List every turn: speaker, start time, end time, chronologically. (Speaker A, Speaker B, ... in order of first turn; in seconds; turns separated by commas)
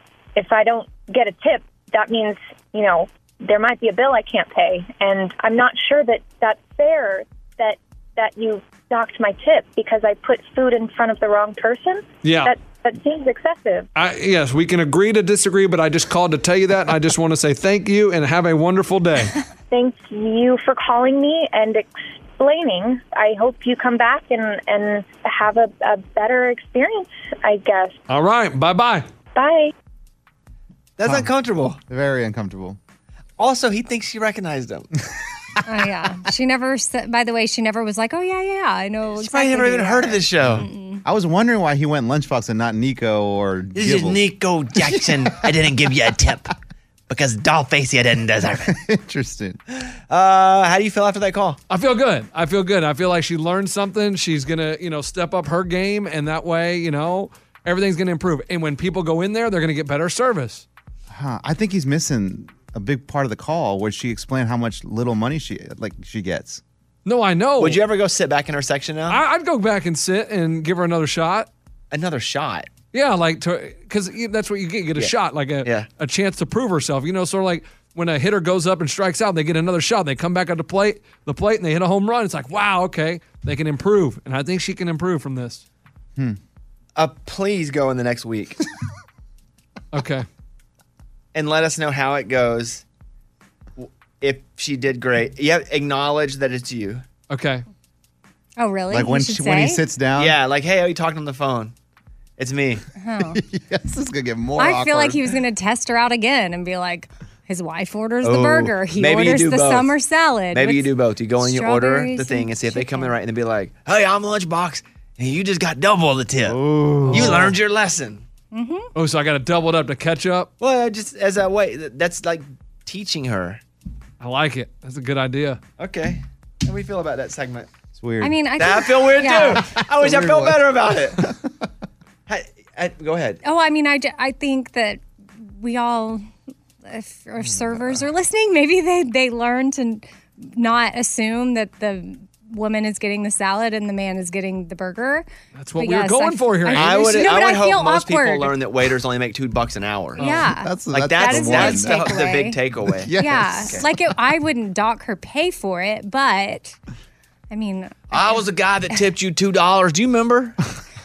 Speaker A: 0.3-13.9, Speaker B: 12.2-12.5, Speaker B: 13.9-19.3, Speaker A: 19.7-27.9, Speaker B: 28.1-29.0, Speaker A: 29.3-29.7, Speaker C: 31.0-31.8, Speaker D: 31.9-32.8, Speaker C: 33.4-34.9, Speaker E: 35.6-41.0, Speaker C: 39.1-40.6, Speaker D: 40.4-44.2, Speaker C: 43.7-46.5, Speaker C: 47.1-48.7, Speaker D: 48.6-49.6, Speaker C: 49.7-51.6, Speaker B: 51.7-60.6, Speaker D: 61.1-66.6, Speaker B: 67.0-67.8, Speaker C: 67.6-69.2, Speaker B: 69.1-71.5, Speaker C: 71.9-72.7, Speaker B: 72.9-85.6, Speaker C: 87.0-88.6, Speaker B: 89.9-90.2, Speaker C: 91.3-92.8, Speaker C: 93.8-97.0, Speaker B: 97.3-97.6, Speaker E: 98.6-99.8, Speaker D: 98.9-100.3, Speaker C: 100.2-101.7, Speaker C: 102.4-102.8, Speaker E: 103.0-103.4, Speaker D: 103.3-105.2, Speaker E: 104.6-110.9, Speaker C: 108.2-109.9, Speaker C: 110.5-118.2, Speaker E: 111.4-113.1, Speaker D: 116.4-117.5, Speaker B: 117.1-117.5, Speaker E: 118.5-118.9, Speaker B: 118.9-120.5, Speaker C: 120.6-123.6, Speaker B: 124.2-125.6, Speaker C: 125.8-127.7, Speaker D: 128.0-128.3, Speaker E: 128.2-129.6, Speaker C: 128.6-131.3, Speaker D: 129.9-130.7, Speaker C: 132.3-133.4, Speaker E: 133.4-136.2, Speaker E: 136.8-145.2, Speaker D: 137.4-138.0, Speaker B: 145.6-147.3, Speaker E: 145.8-148.5, Speaker C: 146.7-150.3, Speaker E: 150.2-152.6, Speaker D: 150.5-153.8, Speaker C: 150.9-153.1, Speaker E: 153.2-156.8, Speaker E: 157.5-158.4, Speaker C: 158.1-160.6